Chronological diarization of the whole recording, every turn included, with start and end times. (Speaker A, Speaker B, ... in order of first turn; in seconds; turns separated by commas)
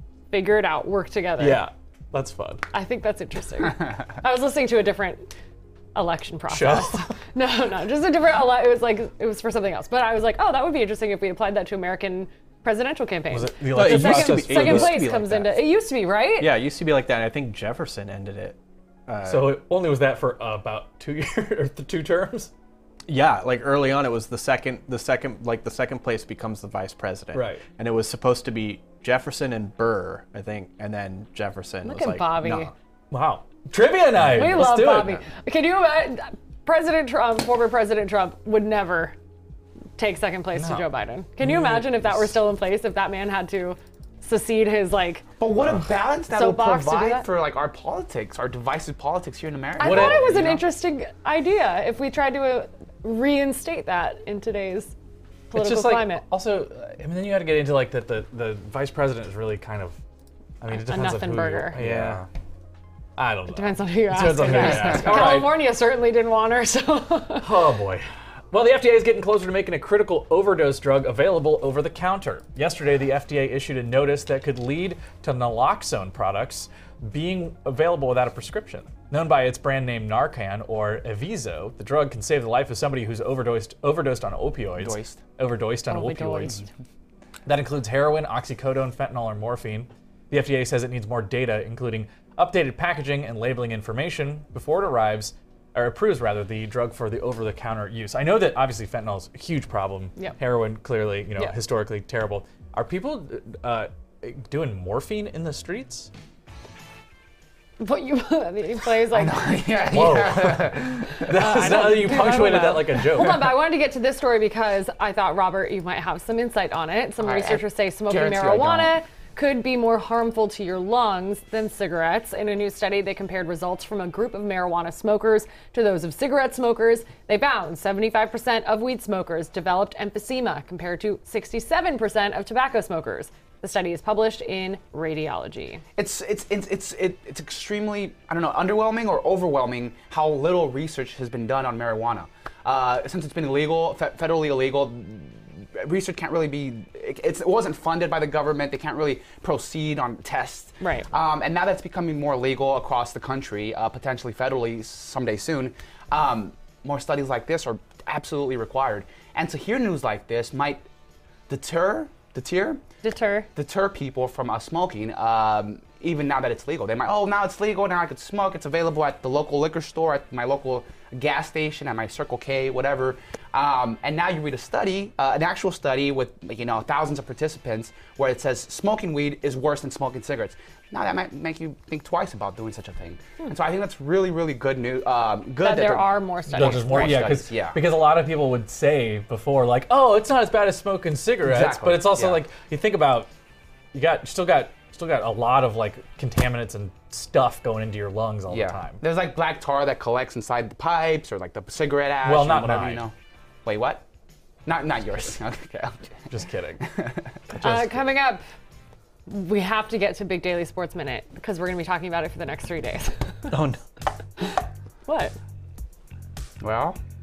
Speaker A: 0.3-1.6, Speaker B: 1.4-2.6, Speaker A: 2.7-5.3, Speaker A: 6.0-16.5, Speaker B: 6.5-7.1, Speaker B: 13.3-15.0, Speaker C: 13.7-15.6, Speaker C: 16.4-19.6, Speaker B: 19.2-22.5, Speaker C: 23.1-32.7, Speaker B: 27.3-27.6, Speaker A: 31.8-32.7, Speaker B: 33.1-35.2, Speaker A: 34.3-39.1, Speaker A: 40.0-45.3, Speaker B: 40.5-40.9, Speaker B: 41.4-42.3, Speaker D: 45.4-50.6, Speaker A: 46.3-47.3, Speaker A: 49.8-54.9, Speaker B: 49.8-50.5, Speaker A: 55.5-56.2, Speaker B: 55.5-60.0, Speaker B: 60.6-62.3, Speaker A: 60.7-61.8, Speaker D: 61.8-62.3, Speaker B: 63.2-65.5, Speaker A: 63.5-67.5, Speaker D: 64.5-65.3, Speaker B: 67.4-86.7, Speaker D: 84.8-85.2, Speaker A: 85.9-86.6, Speaker B: 87.5-106.1, Speaker A: 107.8-109.5, Speaker D: 109.1-111.3, Speaker B: 109.9-113.5, Speaker A: 111.2-135.8, Speaker D: 117.2-118.9, Speaker D: 136.0-160.9, Speaker A: 150.8-151.1, Speaker D: 161.5-162.8, Speaker A: 163.0-163.5, Speaker D: 163.6-187.8, Speaker A: 185.6-187.4, Speaker B: 186.5-193.3, Speaker D: 191.4-192.4, Speaker B: 193.9-199.0, Speaker D: 198.5-203.1, Speaker B: 202.2-203.0, Speaker D: 203.7-204.0, Speaker D: 204.7-206.0, Speaker B: 206.3-206.9, Speaker D: 206.8-207.4, Speaker B: 207.5-208.1, Speaker A: 207.6-208.4, Speaker A: 209.3-213.6, Speaker C: 213.5-213.8, Speaker A: 215.1-215.3, Speaker D: 216.6-217.0